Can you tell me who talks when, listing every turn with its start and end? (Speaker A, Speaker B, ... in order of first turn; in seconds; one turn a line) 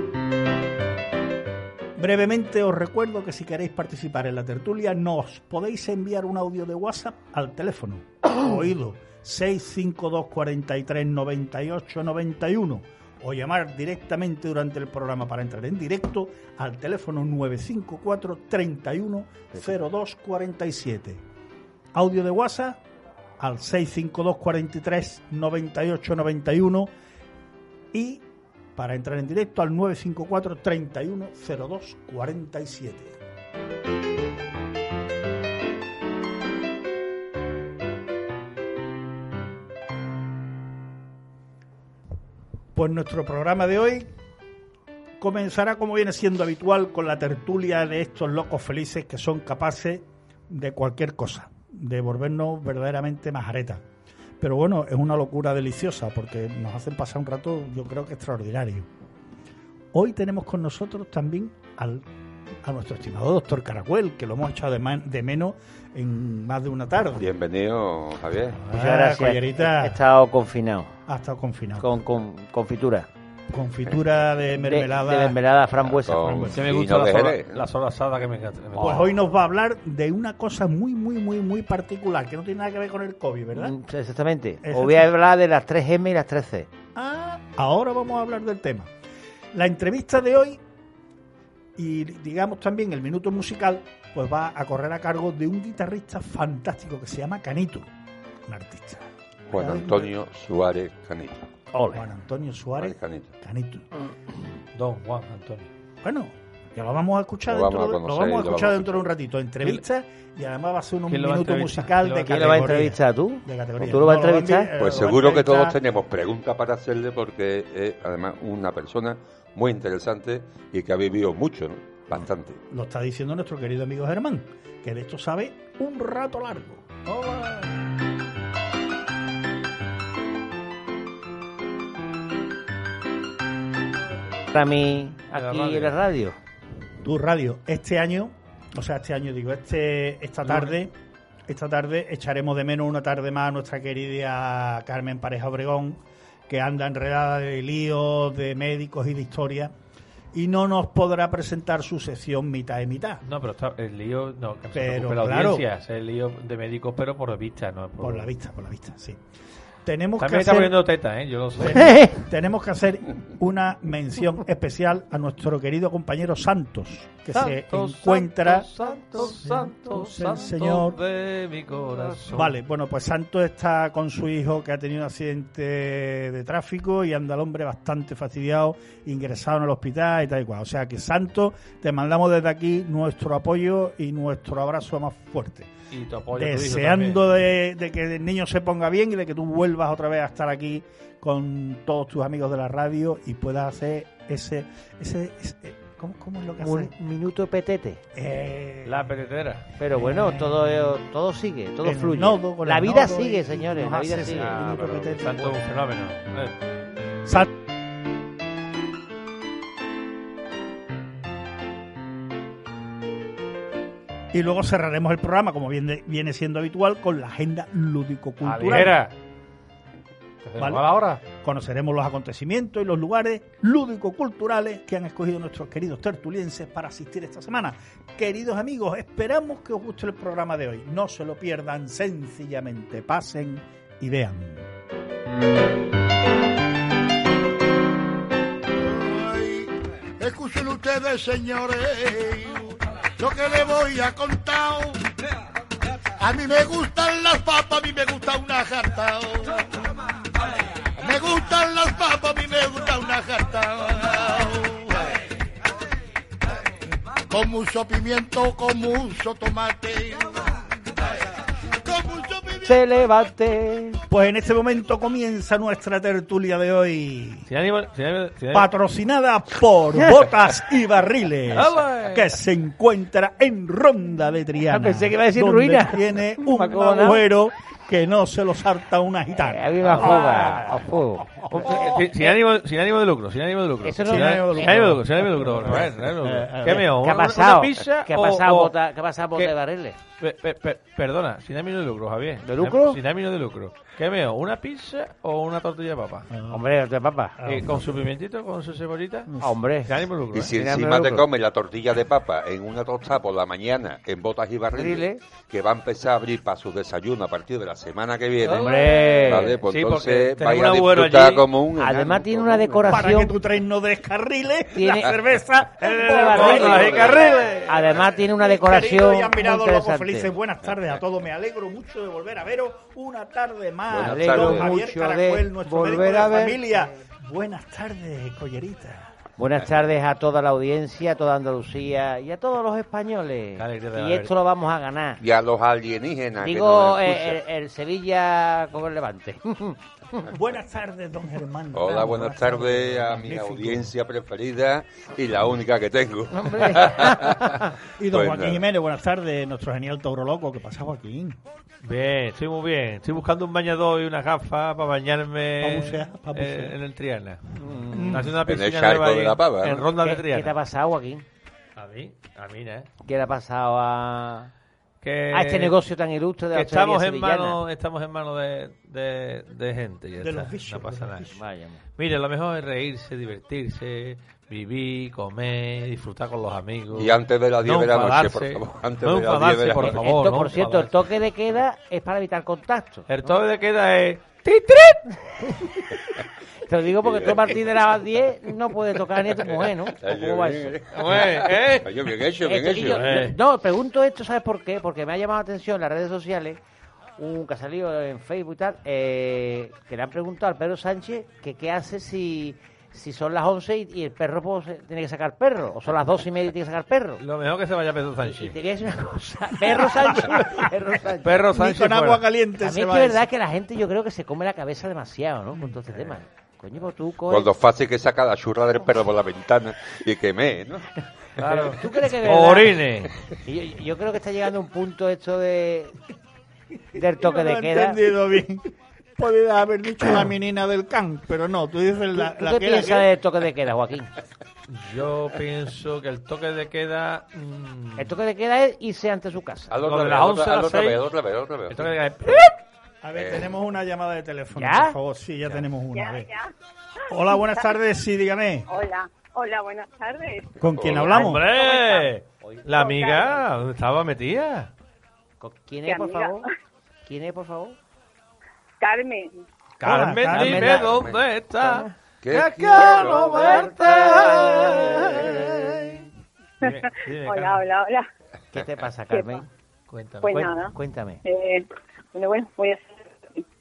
Speaker A: 2.0-21.2
Speaker A: 21.9-22.8
Speaker A: 23.4-26.9
Speaker A: 27.9-28.2
Speaker A: 28.8-33.2
Speaker A: 42.7-44.1
Speaker A: 45.2-53.8
Speaker A: 54.4-58.9
Speaker A: 59.9-62.1
Speaker A: 62.6-67.3
Speaker B: 67.2-68.6
Speaker A: 68.6-70.0
Speaker C: 68.7-71.0
Speaker A: 71.1-71.9
Speaker C: 71.8-73.1
Speaker A: 73.5-75.4
Speaker C: 74.6-76.5
Speaker B: 75.8-77.7
Speaker A: 76.2-76.6
Speaker D: 76.5-79.1
Speaker A: 78.8-83.7
Speaker C: 83.5-86.7
Speaker A: 84.6-85.1
Speaker A: 87.0-88.9
Speaker A: 89.5-90.6
Speaker A: 91.8-97.9
Speaker A: 98.5-100.1
Speaker B: 99.5-101.5
Speaker C: 101.7-102.0
Speaker A: 101.9-103.8
Speaker B: 102.8-103.3
Speaker D: 104.8-105.7
Speaker A: 106.0-115.8
Speaker B: 107.5-109.1
Speaker D: 111.1-112.6
Speaker C: 112.3-114.7
Speaker B: 114.8-122.6
Speaker A: 122.7-126.9
Speaker D: 127.1-127.7
Speaker C: 134.5-136.4
Speaker D: 135.3-136.0
Speaker A: 137.0-140.9
Speaker A: 141.5-149.7
Speaker A: 150.3-153.2
Speaker D: 153.2-158.3
Speaker A: 154.7-155.7
Speaker A: 158.0-159.2
Speaker A: 159.8-160.8
Speaker D: 160.2-162.0
Speaker A: 161.6-171.0
Speaker C: 161.7-162.2
Speaker D: 167.3-172.5
Speaker C: 168.8-169.6
Speaker A: 172.3-185.7
Speaker D: 185.9-187.2
Speaker A: 186.3-196.9
Speaker C: 196.6-198.0
Speaker A: 198.1-199.1
Speaker D: 198.8-199.7
Speaker C: 199.8-204.6
Speaker A: 199.9-200.7
Speaker A: 201.8-205.6
Speaker D: 204.3-206.6
Speaker A: 214.3-219.0
Speaker D: 218.4-219.1
Speaker D: 220.4-221.2
Speaker A: 220.6-234.7
Speaker E: 238.8-245.1
Speaker E: 246.2-249.8
Speaker E: 251.0-255.1
Speaker E: 257.3-260.6
Speaker E: 261.8-262.8
Speaker C: 262.6-264.0
Speaker A: 264.1-267.5
Speaker D: 267.5-268.7
Speaker A: 268.5-280.8
Speaker D: 271.5-272.4
Speaker C: 274.7-277.2
Speaker C: 279.4-282.3
Speaker D: 279.9-280.5
Speaker A: 281.4-281.9
Speaker D: 281.5-288.7
Speaker C: 283.8-285.0
Speaker A: 284.1-285.9
Speaker C: 285.6-290.0
Speaker D: 290.2-296.3
Speaker C: 292.4-293.0
Speaker A: 296.3-296.6
Speaker C: 296.5-297.4
Speaker A: 297.4-297.8
Speaker D: 297.5-299.3
Speaker A: 299.3-299.5
Speaker C: 299.4-299.9
Speaker D: 299.9-300.5
Speaker B: 300.3-312.9
Speaker C: 300.5-301.2
Speaker C: 304.8-305.2
Speaker C: 308.4-309.6
Speaker D: 308.5-311.5
Speaker C: 311.8-313.3
Speaker A: 312.9-329.1
Speaker C: 314.7-315.1
Speaker D: 315.8-317.8
Speaker C: 316.0-320.3
Speaker B: 316.6-317.3
Speaker B: 323.9-324.7
Speaker C: 324.0-326.6
Speaker C: 329.4-335.2
Speaker D: 333.6-334.3
Speaker B: 335.2-337.4
Speaker C: 336.4-340.2
Speaker A: 340.3-343.9
Speaker B: 341.7-347.4
Speaker C: 346.3-347.7
Speaker A: 348.0-351.4
Speaker B: 348.1-348.6
Speaker D: 351.8-360.5
Speaker A: 355.6-356.8
Speaker C: 357.6-358.2
Speaker A: 357.9-358.4
Speaker B: 358.4-359.9
Speaker C: 360.0-361.2
Speaker D: 361.8-362.9
Speaker C: 363.1-364.5
Speaker D: 365.0-365.8
Speaker C: 365.3-367.6
Speaker D: 366.5-371.4
Speaker A: 370.2-371.4
Speaker C: 371.4-371.8
Speaker D: 372.0-380.9
Speaker B: 376.9-380.0
Speaker C: 379.9-383.3
Speaker D: 383.1-385.2
Speaker C: 386.6-390.8
Speaker B: 387.0-387.6
Speaker B: 389.6-393.2
Speaker D: 390.9-391.9
Speaker C: 392.4-396.6
Speaker D: 392.9-393.4
Speaker C: 397.2-407.2
Speaker D: 407.2-408.6
Speaker C: 408.3-411.5
Speaker D: 411.2-412.3
Speaker A: 411.5-413.3
Speaker C: 412.6-417.5
Speaker B: 417.3-420.9
Speaker C: 421.4-422.8
Speaker D: 421.4-423.1
Speaker C: 423.4-425.9
Speaker C: 426.9-428.0
Speaker A: 427.0-433.1
Speaker C: 432.1-434.1
Speaker D: 434.7-438.1
Speaker C: 438.0-439.7
Speaker B: 439.7-442.0
Speaker D: 439.8-441.0
Speaker D: 441.7-442.5
Speaker A: 443.0-446.3
Speaker B: 443.1-443.5
Speaker C: 444.6-445.0
Speaker F: 445.9-446.5
Speaker A: 447.1-448.7
Speaker F: 448.7-450.6
Speaker A: 450.6-451.5
Speaker B: 450.7-451.3
Speaker D: 451.1-454.7
Speaker F: 451.3-452.1
Speaker F: 452.7-453.4
Speaker C: 455.4-456.5
Speaker F: 455.9-456.5
Speaker C: 457.1-457.8
Speaker F: 458.8-459.3
Speaker A: 459.8-460.8
Speaker D: 459.8-465.9
Speaker C: 460.3-460.9
Speaker B: 460.4-461.2
Speaker C: 461.6-461.9
Speaker B: 462.2-463.5
Speaker C: 462.8-465.9
Speaker F: 462.9-463.6
Speaker D: 466.6-467.6
Speaker F: 466.6-468.1
Speaker C: 468.5-469.5
Speaker D: 469.9-470.6
Speaker F: 470.2-470.7
Speaker C: 470.6-471.2
Speaker F: 471.2-473.4